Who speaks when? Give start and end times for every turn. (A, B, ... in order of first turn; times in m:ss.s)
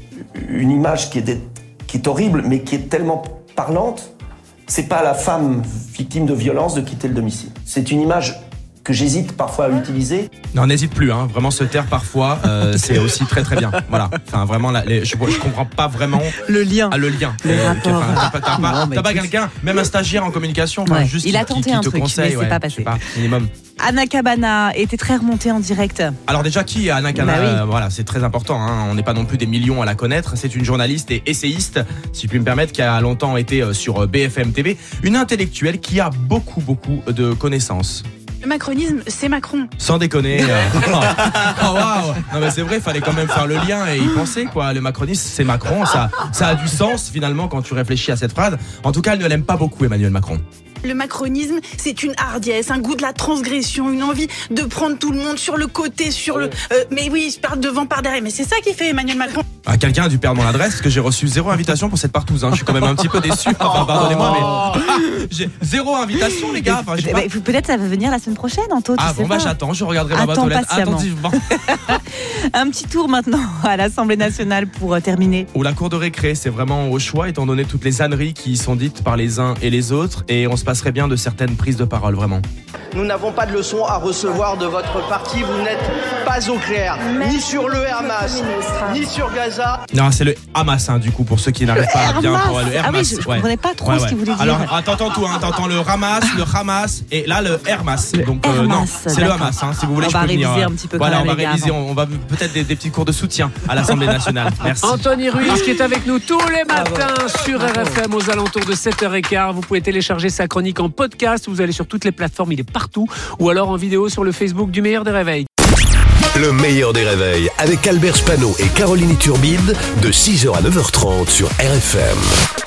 0:00.3-0:04.1 A
0:04.7-0:10.3 A
0:10.5-0:16.4 B
0:16.4-0:19.3 C
0:16.9-0:23.5 B
0:20.8-0:23.0 C
0:23.8-0:26.2 C
0:26.3-0:38.0 B
0:27.1-0:27.6 C
0:38.4-0:39.7 D
0:39.8-0:50.4 B
0:50.8-0:59.4 D
0:59.6-1:07.3 B
1:04.0-1:04.7 C
1:06.5-1:09.5 C
1:09.0-1:11.4 B
1:10.1-1:15.5 C
1:15.5-1:22.4 B
1:22.9-1:29.8 E
1:29.9-1:45.6 B
1:31.7-1:34.7 C
1:38.1-1:41.7 C
1:44.8-1:55.5 F
1:47.6-1:47.9 C
1:56.3-2:02.4 G